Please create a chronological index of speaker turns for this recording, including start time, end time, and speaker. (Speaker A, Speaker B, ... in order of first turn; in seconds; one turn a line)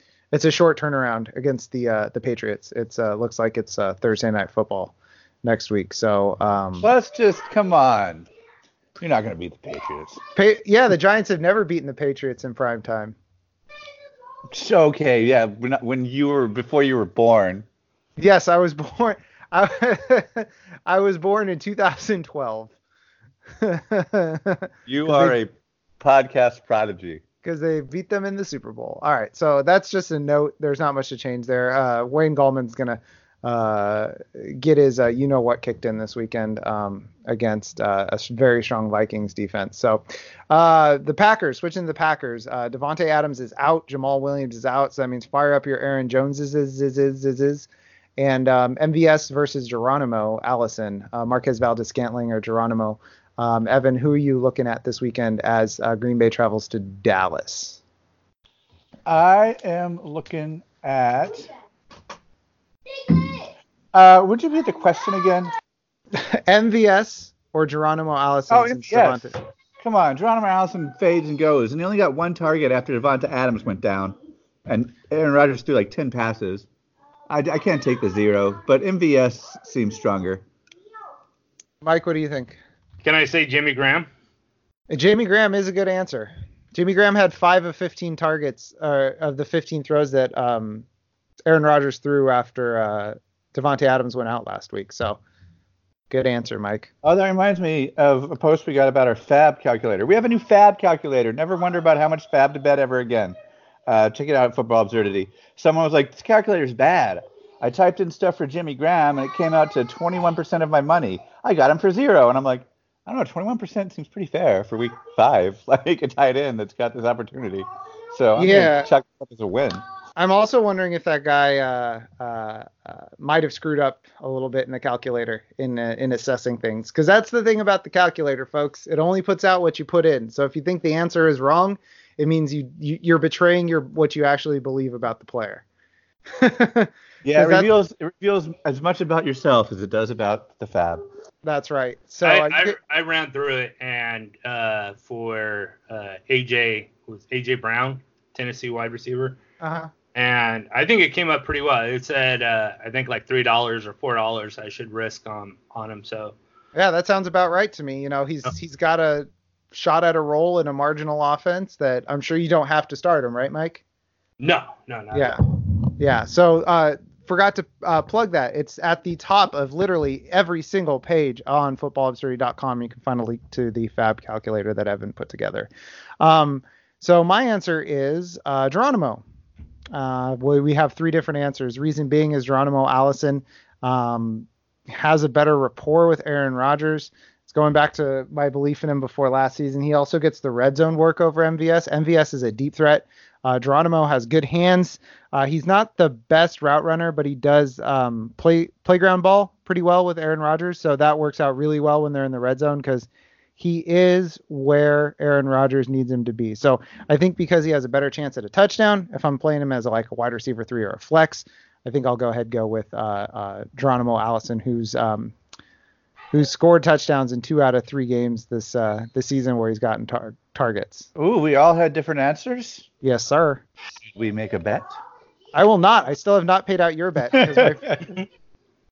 Speaker A: 0.3-6.9
Speaker B: 6.8-8.3
Speaker B: 9.0-10.2
Speaker A: 10.4-13.2
Speaker B: 14.5-17.7
Speaker A: 18.2-22.7
Speaker A: 23.6-25.4
Speaker B: 24.9-27.2
Speaker A: 27.4-57.8
Speaker B: 59.1-61.5
Speaker B: 63.9-65.5
Speaker A: 66.1-69.3
Speaker B: 68.5-74.2
Speaker B: 74.7-76.7
Speaker B: 77.3-80.4
Speaker A: 81.8-82.6
Speaker C: 83.0-84.1
Speaker A: 84.9-90.9
Speaker A: 91.5-95.2
Speaker A: 96.1-96.9
Speaker B: 97.0-103.4
Speaker B: 103.9-119.8
Speaker A: 118.4-118.9
Speaker A: 120.2-135.6
Speaker A: 136.4-137.7
Speaker B: 137.2-141.0
Speaker A: 141.4-142.8
Speaker C: 142.2-149.4
Speaker A: 149.6-149.9
Speaker C: 150.2-156.3
Speaker A: 156.8-163.8
Speaker C: 164.4-165.4
Speaker A: 165.1-165.4
Speaker A: 165.9-175.7
Speaker A: 176.2-179.2
Speaker A: 179.9-215.3
Speaker A: 216.3-221.1
Speaker B: 221.2-222.9
Speaker A: 223.0-223.6
Speaker B: 224.1-224.9
Speaker A: 225.5-228.0
Speaker B: 227.3-228.0